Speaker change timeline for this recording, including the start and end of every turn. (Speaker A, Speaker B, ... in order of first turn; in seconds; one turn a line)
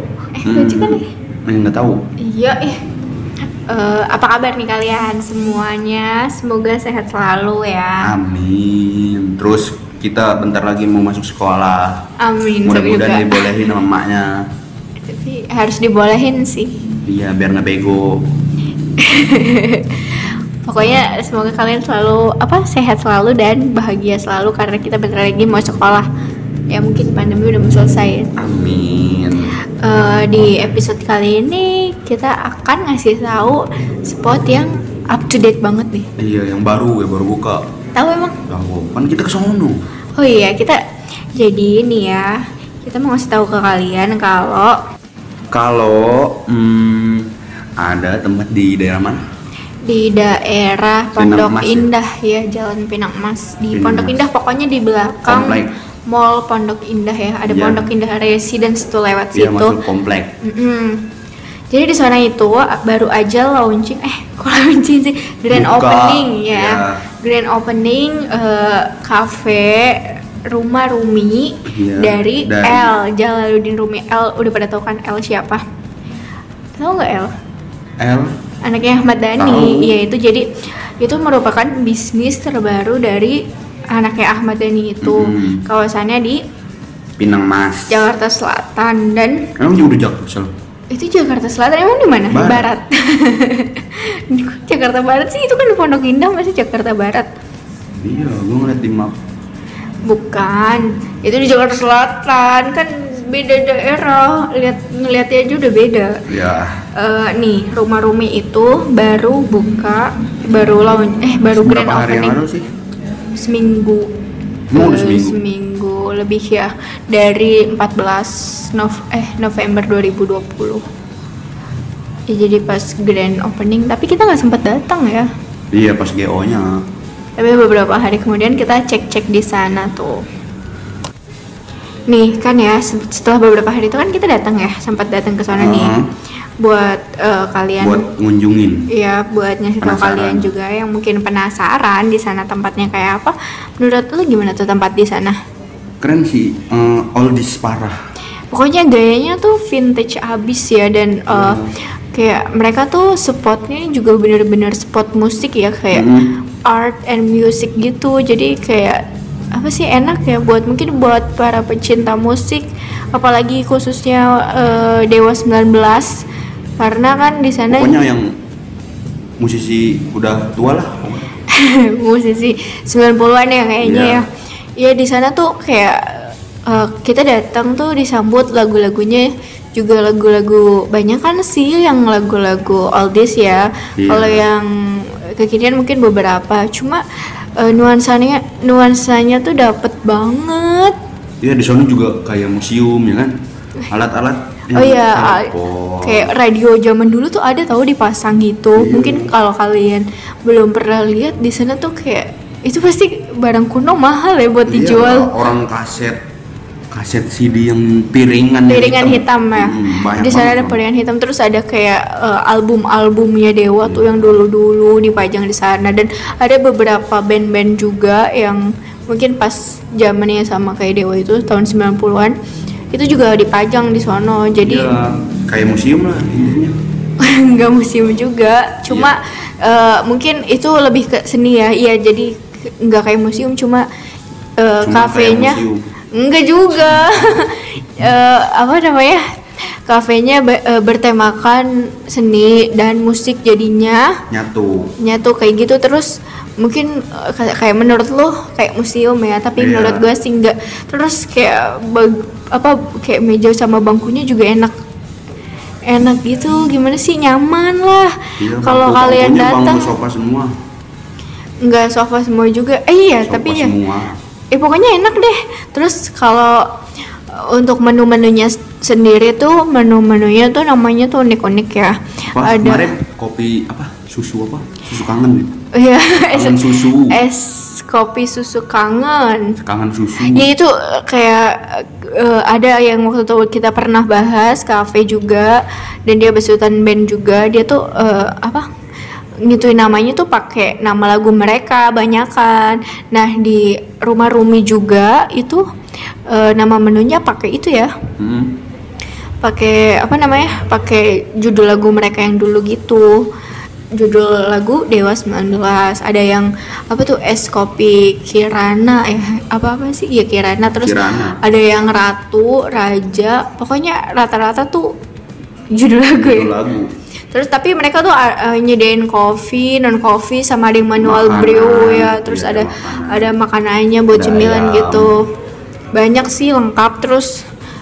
Speaker A: 0.4-1.1
Speaker B: 0.4-2.0
Speaker A: 2.2-2.8
Speaker A: 3.7-8.1
Speaker B: 8.0-12.0
Speaker A: 12.2-13.5
Speaker B: 12.6-14.3
Speaker A: 15.0-16.8
Speaker B: 17.1-18.3
Speaker A: 19.0-26.1
Speaker A: 26.7-28.3
Speaker B: 28.4-29.6
Speaker A: 29.8-36.1
Speaker B: 36.2-37.7
Speaker A: 38.0-38.4
Speaker B: 38.5-39.9
Speaker A: 40.2-40.8
Speaker A: 41.4-42.3
Speaker A: 42.8-44.8
Speaker B: 45.5-49.2
Speaker A: 49.9-59.8
Speaker B: 51.2-51.9
Speaker B: 53.7-54.2
Speaker B: 55.3-55.7
Speaker B: 57.5-57.9
Speaker B: 59.3-60.3
Speaker A: 60.4-61.1
Speaker A: 61.7-75.6
Speaker B: 65.5-67.0
Speaker B: 71.7-72.9
Speaker A: 76.8-77.3
Speaker B: 78.0-78.4
Speaker A: 78.6-80.5
Speaker B: 79.4-80.0
Speaker A: 81.0-83.4
Speaker A: 83.9-86.4
Speaker B: 85.0-85.6
Speaker B: 87.2-88.0
Speaker A: 87.9-89.5
Speaker B: 89.6-90.5
Speaker A: 90.9-97.3
Speaker B: 92.3-92.7
Speaker B: 98.0-99.2
Speaker A: 100.1-106.2
Speaker B: 106.3-106.8
Speaker A: 107.0-112.4
Speaker B: 111.5-112.7
Speaker A: 113.4-114.1
Speaker B: 114.7-115.4
Speaker A: 114.7-120.8
Speaker A: 122.3-125.3
Speaker B: 125.7-126.8
Speaker A: 127.4-130.2
Speaker A: 132.1-136.0
Speaker B: 135.5-136.1
Speaker A: 136.6-138.1
Speaker B: 137.8-138.9
Speaker A: 138.9-145.4
Speaker B: 139.8-140.5
Speaker B: 146.0-148.0
Speaker A: 148.5-151.6
Speaker B: 151.3-151.7
Speaker A: 152.1-156.1
Speaker B: 155.9-156.4
Speaker A: 156.7-159.0
Speaker A: 159.6-166.2
Speaker A: 166.8-168.0
Speaker B: 167.7-168.4
Speaker B: 169.4-171.2
Speaker A: 171.5-187.0
Speaker B: 173.8-174.2
Speaker B: 184.0-184.4
Speaker A: 187.6-190.9
Speaker B: 191.4-193.3
Speaker B: 193.9-196.3
Speaker A: 194.7-195.5
Speaker A: 196.0-205.3
Speaker B: 198.8-199.3
Speaker B: 204.7-206.2
Speaker B: 206.9-210.8
Speaker A: 208.7-222.4
Speaker A: 222.9-224.9
Speaker B: 224.6-226.8
Speaker A: 227.2-232.3
Speaker B: 228.9-229.1
Speaker A: 232.8-233.8
Speaker A: 234.6-239.2
Speaker B: 234.8-235.8
Speaker B: 236.9-237.2
Speaker A: 239.9-244.2
Speaker B: 244.3-244.9
Speaker A: 245.0-254.7
Speaker B: 249.6-250.0
Speaker A: 255.9-259.9
Speaker B: 258.4-260.5
Speaker A: 261.6-263.7
Speaker B: 263.2-264.2
Speaker A: 264.5-266.7
Speaker A: 267.3-272.9
Speaker B: 272.3-275.5
Speaker A: 275.7-279.6
Speaker B: 276.3-277.2
Speaker B: 279.6-280.5
Speaker A: 280.2-288.7
Speaker A: 289.5-295.6
Speaker A: 296.3-297.9
Speaker B: 298.2-298.6
Speaker A: 299.4-303.1
Speaker A: 304.0-314.9
Speaker B: 310.8-311.4
Speaker A: 315.7-316.5
Speaker B: 316.1-316.9
Speaker A: 317.3-325.2
Speaker B: 321.0-323.3
Speaker B: 324.1-325.1
Speaker A: 325.9-327.3